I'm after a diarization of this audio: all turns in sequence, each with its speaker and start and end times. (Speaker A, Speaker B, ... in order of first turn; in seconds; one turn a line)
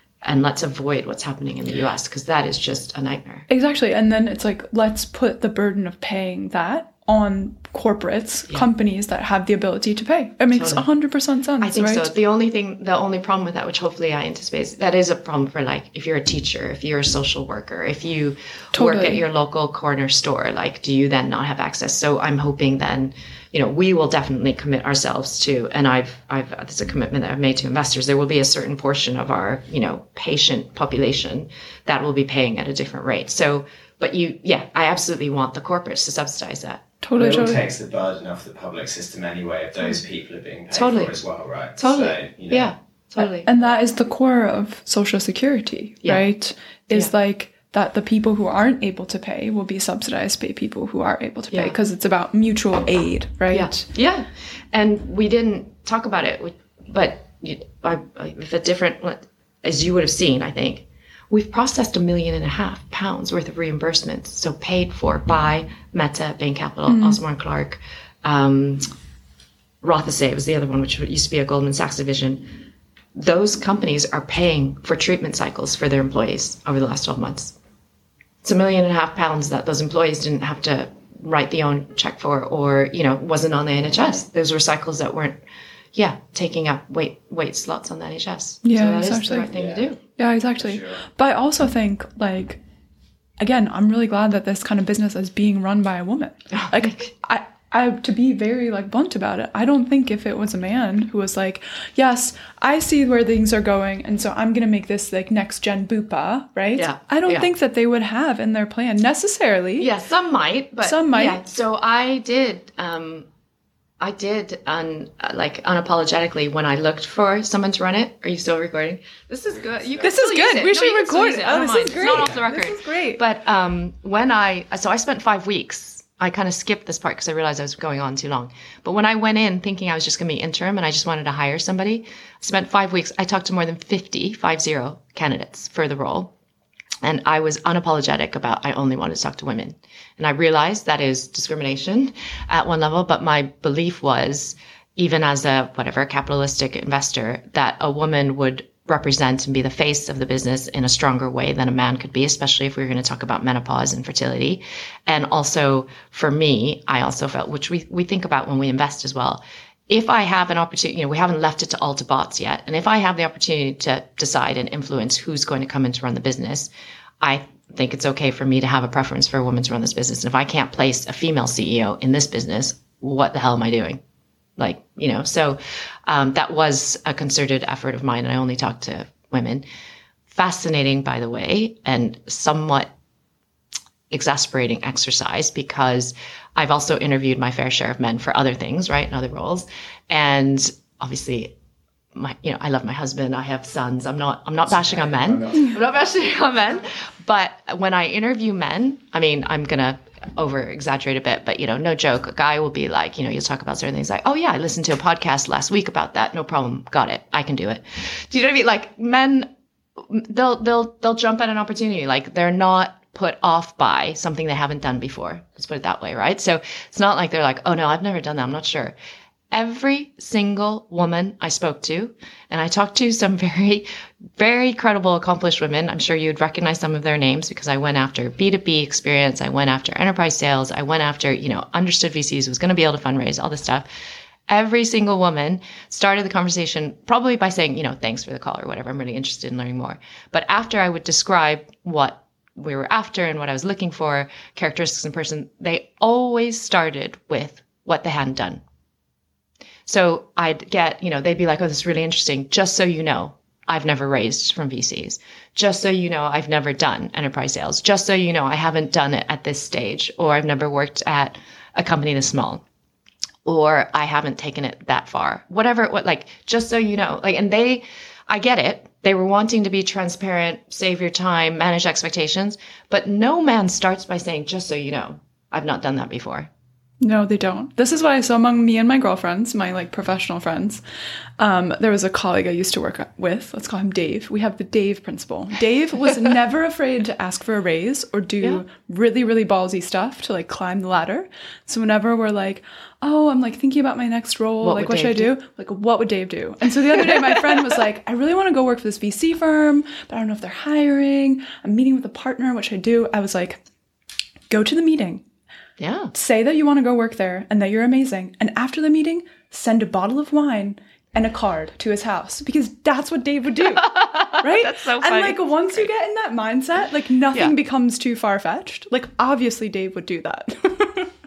Speaker A: 0.2-3.5
Speaker B: 3.5-12.1
Speaker A: 10.5-10.8
Speaker A: 11.6-36.8
Speaker B: 18.7-19.2
Speaker B: 37.0-37.6
Speaker C: 37.2-42.7
Speaker A: 40.7-41.1
Speaker A: 41.8-43.5
Speaker B: 43.4-53.9
Speaker A: 53.5-68.8
Speaker B: 66.9-67.2
Speaker A: 69.8-72.5
Speaker A: 73.2-77.5
Speaker A: 78.4-85.4
Speaker A: 85.9-90.0
Speaker B: 88.6-89.5
Speaker C: 89.5-89.9
Speaker B: 90.2-92.6
Speaker C: 90.5-91.0
Speaker B: 93.4-109.9
Speaker A: 96.5-97.1
Speaker A: 106.8-107.5
Speaker A: 109.8-113.3
Speaker B: 110.8-111.4
Speaker A: 114.0-136.3
Speaker C: 119.7-120.0
Speaker B: 120.0-123.2
Speaker A: 137.0-166.7
Speaker A: 167.2-174.0
Speaker A: 174.6-179.7
Speaker A: 180.3-182.9
Speaker A: 184.1-191.5
Speaker A: 192.1-218.9
Speaker C: 195.3-195.6
Speaker A: 219.5-233.9
Speaker A: 234.5-248.6
Speaker A: 249.8-262.6
Speaker A: 263.4-276.5
Speaker B: 277.0-280.8
Speaker B: 281.4-303.6
Speaker A: 294.6-295.3
Speaker A: 296.9-297.6
Speaker B: 304.5-305.2
Speaker A: 305.8-306.1
Speaker B: 306.1-321.1
Speaker A: 313.8-315.9